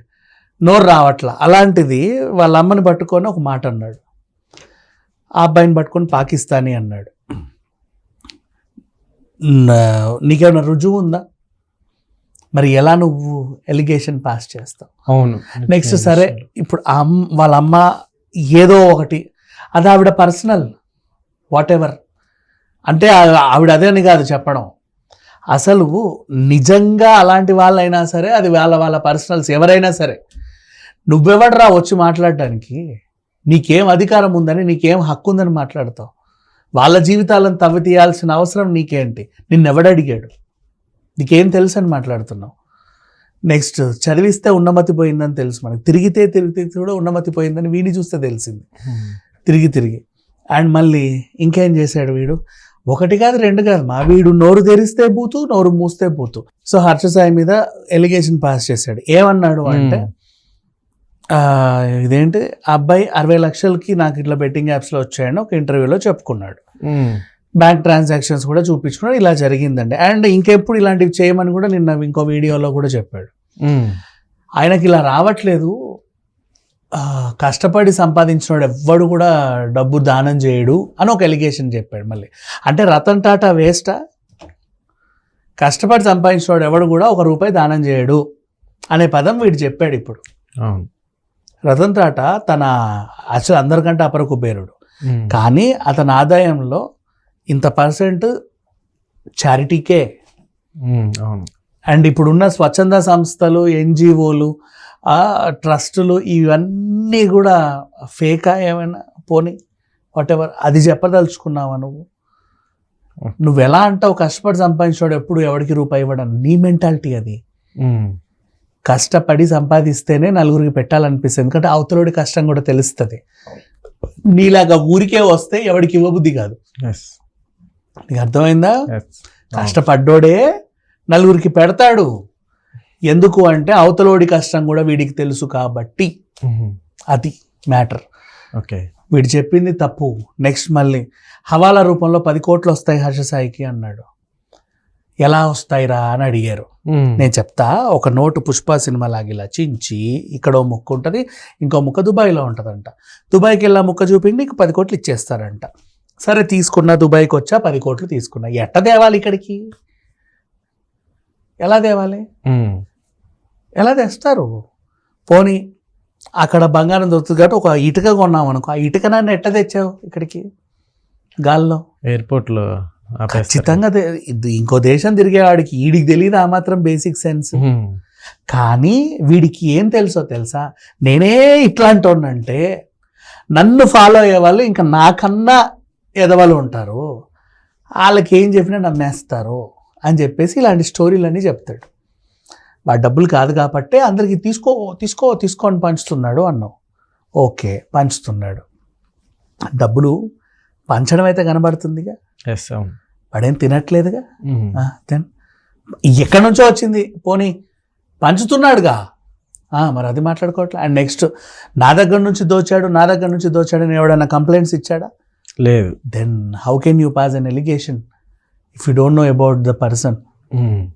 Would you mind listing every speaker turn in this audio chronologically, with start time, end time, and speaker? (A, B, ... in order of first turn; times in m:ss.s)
0:00.7-0:04.0 A
0:05.4-0:07.1 A
0:09.5-0:11.2 A
0:12.5-0:14.9 A
0:15.1-0:16.4 B
0:15.7-0:17.8 A
0:18.5-0:19.2 A
0:19.8-0:20.6 A
0:21.5-0:22.0 A
0:22.9-0:24.6 A
0:25.5-0:30.2 A
0:31.1-0:32.8 A
0:33.5-0:36.1 A
0:36.8-0:40.3 A
0:41.2-0:42.5 A
0:43.5-0:48.6 A
0:48.8-0:49.2 B
0:49.4-0:50.0 A
0:50.5-0:52.4 A
0:52.9-1:00.0 A
0:59.7-1:00.0 B
1:01.4-1:06.6 A
1:06.9-1:07.2 B
1:07.6-1:13.3 A
1:13.6-1:14.0 B
1:14.6-1:15.7 A
1:17.0-1:23.9 A
1:25.6-1:28.2 A
1:28.9-1:30.2 A
1:31.7-1:32.7 A
1:33.4-1:34.7 A
1:35.3-1:36.8 A
1:37.5-1:38.3 A
1:39.4-1:40.0 A
1:40.8-1:41.5 B
1:41.9-1:44.5 A
1:45.1-1:47.5 A
1:48.2-1:49.5 A
1:50.2-1:52.0 A
1:53.4-1:57.4 A
1:57.8-1:58.1 B
1:58.8-2:03.2 A
2:04.3-2:06.6 A
2:06.9-2:07.1 B
2:08.1-2:08.7 A
2:08.9-2:09.8 B
2:09.5-2:10.4 A
2:11.1-2:12.1 A
2:13.1-2:16.1 A
2:16.4-2:16.7 B
2:17.1-2:18.0 A
2:18.6-2:18.8 B
2:19.1-2:24.0 A
2:25.2-2:26.7 A
2:26.9-2:27.2 B
2:27.2-2:35.7 A
2:36.2-2:39.6 A
2:41.6-2:42.2 A
2:42.5-2:42.7 B
2:43.8-2:44.5 A
2:45.3-2:45.6 A
2:46.4-2:50.4 A
2:51.4-2:51.8 A
2:52.1-2:52.6 B
2:53.2-2:53.8 B
2:53.3-2:57.6 A
2:57.6-2:57.9 B
2:58.5-3:02.6 A
3:03.6-3:05.6 A
3:06.2-3:07.0 A
3:08.0-3:11.9 A
3:12.9-3:16.7 A
3:17.4-3:18.6 A
3:19.8-3:20.1 A
3:20.9-3:22.1 A
3:22.5-3:22.9 B
3:23.3-3:24.2 A
3:24.5-3:24.8 B
3:24.8-3:25.2 A
3:26.2-3:27.5 A
3:28.2-3:29.0 A
3:29.8-3:31.2 A
3:31.8-3:35.1 A
3:35.6-3:35.9 B
3:36.1-3:38.0 A
3:38.8-3:40.2 A
3:40.6-3:40.9 B